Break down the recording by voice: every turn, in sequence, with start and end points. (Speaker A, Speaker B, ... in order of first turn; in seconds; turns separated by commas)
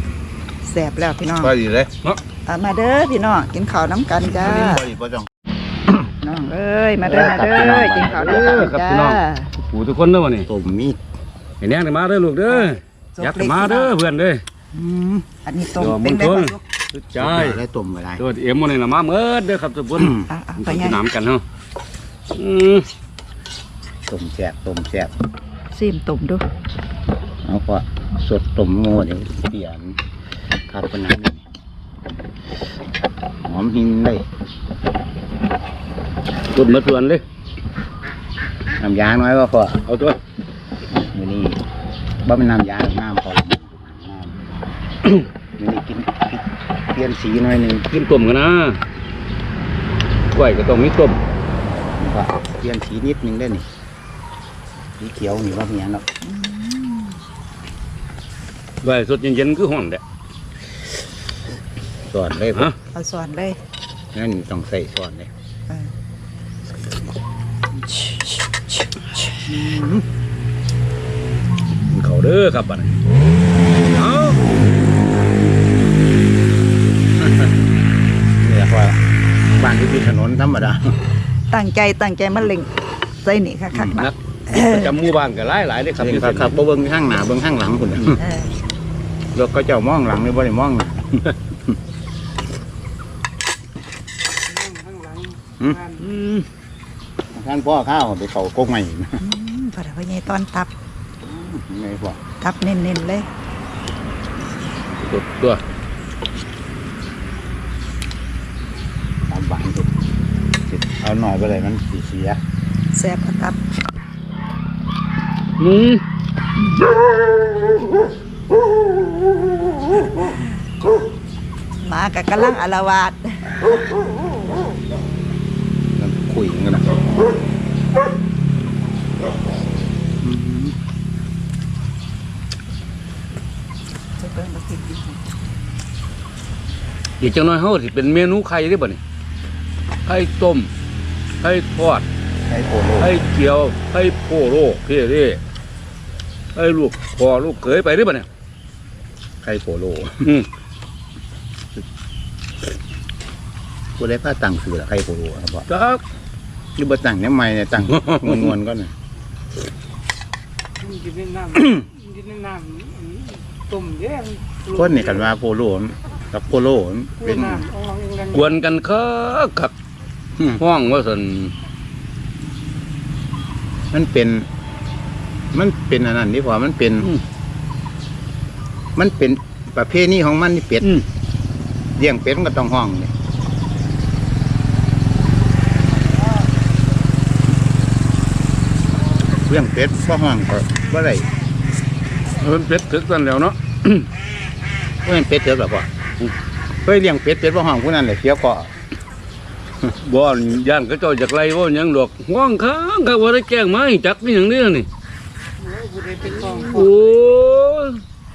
Speaker A: 0.7-1.5, Speaker B: 1.4-1.9, Speaker A: 2.5-4.8, Speaker B: 4.2-5.3, Speaker A: 6.2-9.5, Speaker B: 7.0-8.7, Speaker C: 8.1-10.5, Speaker B: 10.5-11.0, Speaker C: 11.6-14.4, Speaker A: 12.5-13.9, Speaker B: 14.7-15.3, Speaker A: 15.4-16.6, Speaker C: 15.8-17.6, Speaker B: 16.9-18.2, Speaker C: 18.2-21.4, Speaker A: 20.3-21.0, Speaker C: 22.3-22.9, Speaker B: 24.1-25.1, Speaker A: 25.7-26.4, Speaker B: 27.4-30.0, Speaker B: 30.7-31.4, Speaker B: 33.4-34.2, Speaker C: 36.5-37.2, Speaker B: 38.8-39.8, Speaker C: 39.9-40.2, Speaker B: 40.9-41.6, Speaker B: 42.2-44.5, Speaker B: 45.6-47.9, Speaker C: 47.9-48.8, Speaker C: 50.3-51.2, Speaker B: 52.0-53.7, Speaker B: 55.0-56.0, Speaker A: 56.2-57.2, Speaker C: 58.8-60.0, Speaker B: 62.1-62.7, Speaker A: 62.9-63.6, Speaker B: 64.1-65.3, Speaker A: 68.0-68.2, Speaker B: 69.5-70.0, Speaker C: 71.8-72.9, Speaker C: 73.9-74.5, Speaker B: 78.4-79.0, Speaker B: 79.6-81.0, Speaker A: 81.5-84.9, Speaker C: 83.9-86.6, Speaker B: 86.0-88.2, Speaker A: 88.2-88.5, Speaker B: 89.3-91.8, Speaker D: 94.5-96.2, Speaker C: 96.0-96.5, Speaker B: 97.3-99.2, Speaker A: 99.2-100.7, Speaker B: 101.2-102.2, Speaker A: 102.4-103.3, Speaker C: 104.9-105.6, Speaker B: 109.3-109.9, Speaker B: 110.7-112.4, Speaker A: 112.9-113.6, Speaker C: 115.6-116.0, Speaker A: 121.8-123.7, Speaker B: 126.0-126.9, Speaker B: 130.2-130.8, Speaker A: 134.2-135.3, Speaker C: 137.2-139.0, Speaker C: 140.1-140.7, Speaker C: 141.4-142.1, Speaker B: 142.5-143.2, Speaker C: 143.0-145.4, Speaker C: 146.6-148.3, Speaker B: 149.4-150.3, Speaker B: 154.0-155.7, Speaker C: 155.7-156.0, Speaker B: 156.8-158.9, Speaker C: 157.9-158.5, Speaker D: 160.8-165.3, Speaker B: 164.7-167.7, Speaker D: 167.2-168.6, Speaker C: 168.3-169.7, Speaker C: 170.6-171.5, Speaker B: 173.9-174.5, Speaker B: 175.5-177.1, Speaker B: 179.0-180.9, Speaker B: 182.0-183.1, Speaker B: 189.3-191.3, Speaker C: 192.4-194.1, Speaker B: 195.0-195.9, Speaker B: 196.8-198.7, Speaker C: 200.0-204.9, Speaker D: 205.6-207.2, Speaker C: 206.6-208.0